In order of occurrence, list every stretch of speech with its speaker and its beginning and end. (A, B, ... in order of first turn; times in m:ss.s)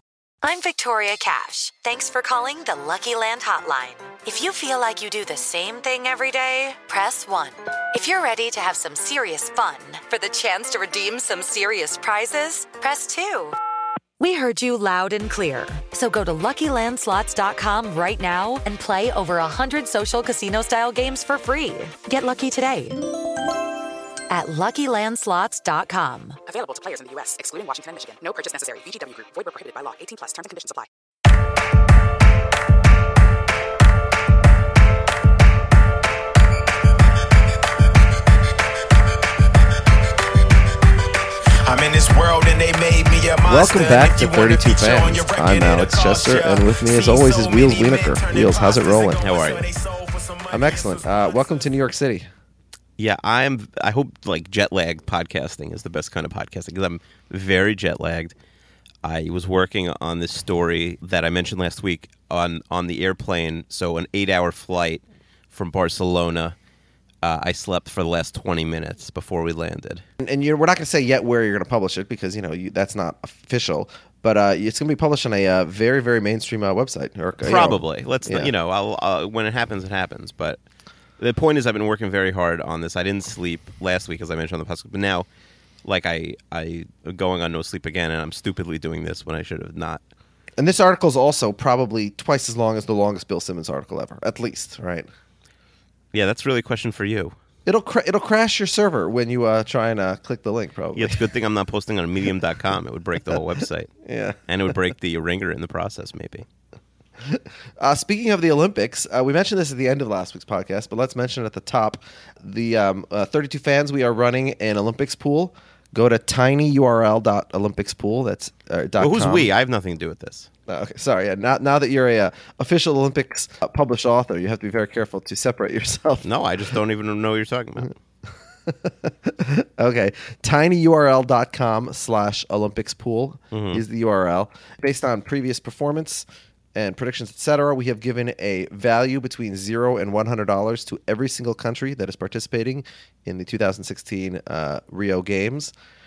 0:00.4-0:13.6 A
0:14.2-0:23.0 A
0:24.3-0:26.4 A
0:26.4-0:30.9 B
0:41.6-0:51.7 C
0:43.4-0:49.2 D
0:49.2-0:49.6 E
0:50.5-0:52.3 D
0:53.0-0:58.3 E
0:59.0-1:06.6 E
1:07.2-1:10.0 E
1:10.2-1:18.5 D
1:17.4-1:20.6 E
1:21.2-1:25.3 E
1:25.8-1:30.0 E
1:30.6-1:35.1 D
1:36.1-1:37.4 E
1:37.6-1:41.3 D
1:40.9-1:43.9 E
1:44.0-1:44.7 D
1:44.5-1:46.4 E
1:47.2-1:59.5 D
1:59.0-2:00.5 E
2:00.7-2:06.3 D
2:06.2-2:07.9 E
2:08.7-2:25.7 D
2:13.5-2:13.8 E